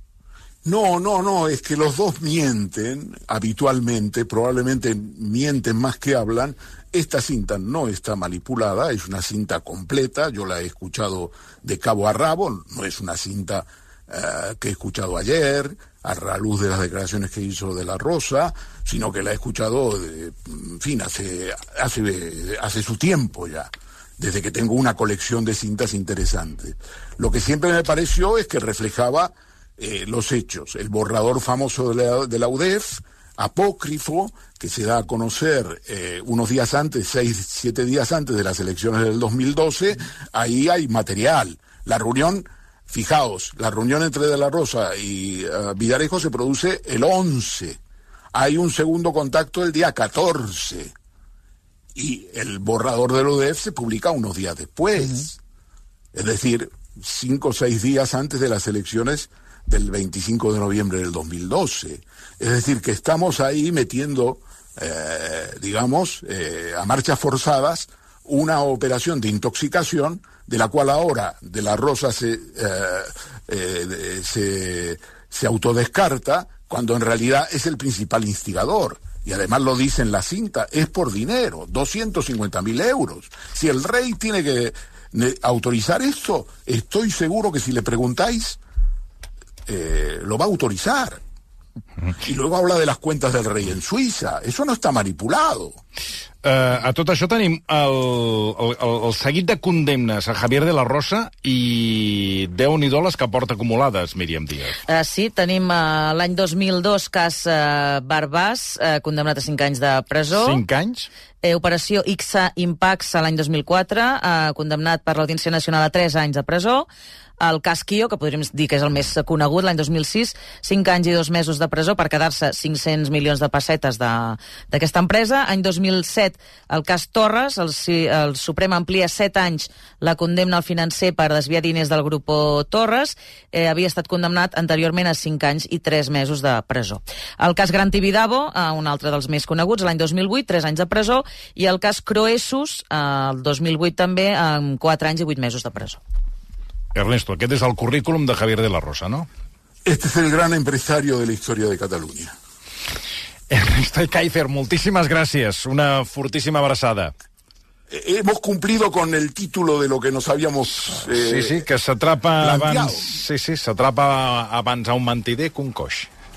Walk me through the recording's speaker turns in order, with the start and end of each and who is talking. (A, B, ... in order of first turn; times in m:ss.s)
0:00.6-0:47.8 A
0:48.3-0:50.9 A
0:51.9-0:55.4 A
0:56.1-1:28.6 A
1:29.7-1:31.2 A
1:32.2-1:35.8 A
1:36.4-1:44.8 B
1:44.9-1:50.6 C
1:50.3-1:51.1 B
1:51.4-1:56.9 C
1:57.4-2:26.0 C
2:26.9-2:29.3 B
2:29.8-2:32.3 A
2:33.5-2:37.1 B
2:37.9-2:41.6 A
2:40.9-2:46.1 B
2:42.4-2:43.1 A